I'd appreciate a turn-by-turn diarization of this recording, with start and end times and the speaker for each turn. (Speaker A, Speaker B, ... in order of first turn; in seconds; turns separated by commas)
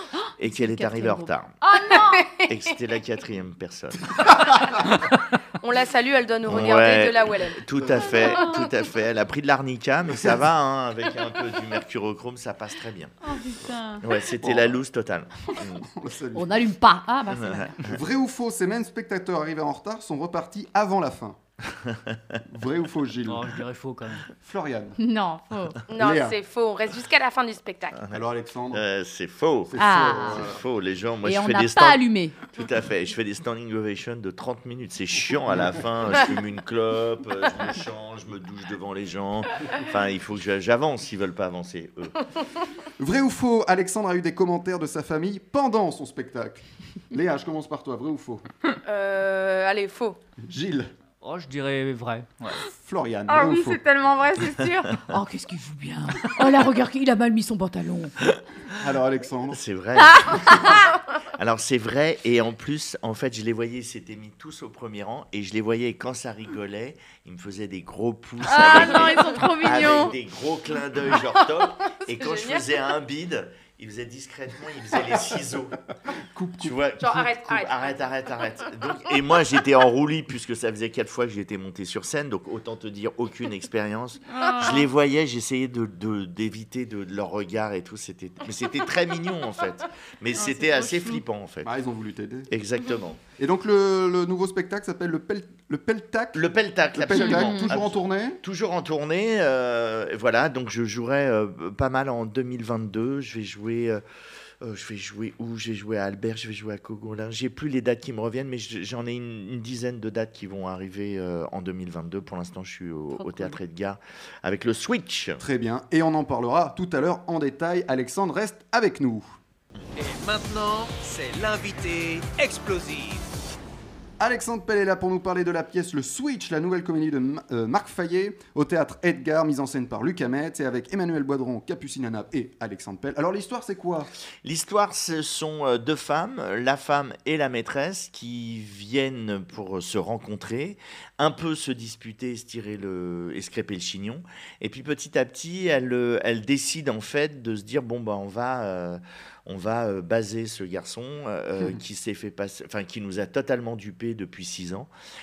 Speaker A: 0.2-2.2, Speaker B: 0.4-1.5, Speaker C: 1.9-2.5, Speaker B: 2.5-4.1, Speaker C: 5.6-7.6, Speaker B: 6.5-13.1, Speaker A: 13.2-14.0, Speaker B: 14.0-15.8, Speaker D: 14.4-14.8, Speaker D: 15.8-16.6, Speaker A: 16.3-17.8, Speaker B: 17.3-17.9, Speaker D: 17.8-21.4, Speaker D: 22.4-23.6, Speaker E: 23.2-24.2, Speaker D: 24.3-25.0, Speaker A: 25.0-25.8, Speaker C: 25.9-27.9, Speaker D: 25.9-26.4, Speaker B: 27.9-32.0, Speaker D: 28.1-28.8, Speaker D: 29.6-30.6, Speaker A: 29.8-30.4, Speaker A: 31.2-32.4, Speaker B: 32.5-42.2, Speaker D: 43.0-48.4, Speaker C: 48.9-50.2, Speaker D: 50.4-50.9, Speaker E: 51.2-52.5, Speaker D: 52.7-53.8, Speaker A: 53.3-58.1, Speaker B: 54.4-54.7, Speaker D: 58.8-59.6, Speaker B: 59.5-60.8, Speaker A: 60.0-60.8, Speaker B: 61.4-75.8, Speaker A: 68.4-70.1, Speaker C: 68.6-69.2, Speaker C: 72.0-72.8, Speaker D: 76.3-76.8, Speaker B: 76.6-91.7, Speaker C: 77.0-77.9, Speaker A: 84.4-84.8, Speaker A: 90.3-91.2, Speaker D: 91.6-92.5, Speaker B: 92.5-93.2, Speaker D: 93.4-98.4, Speaker B: 96.3-104.0, Speaker A: 97.1-97.7, Speaker B: 104.6-115.4, Speaker A: 113.2-113.5, Speaker D: 115.4-119.2, Speaker F: 120.0-123.2, Speaker D: 124.2-134.1, Speaker B: 134.4-154.9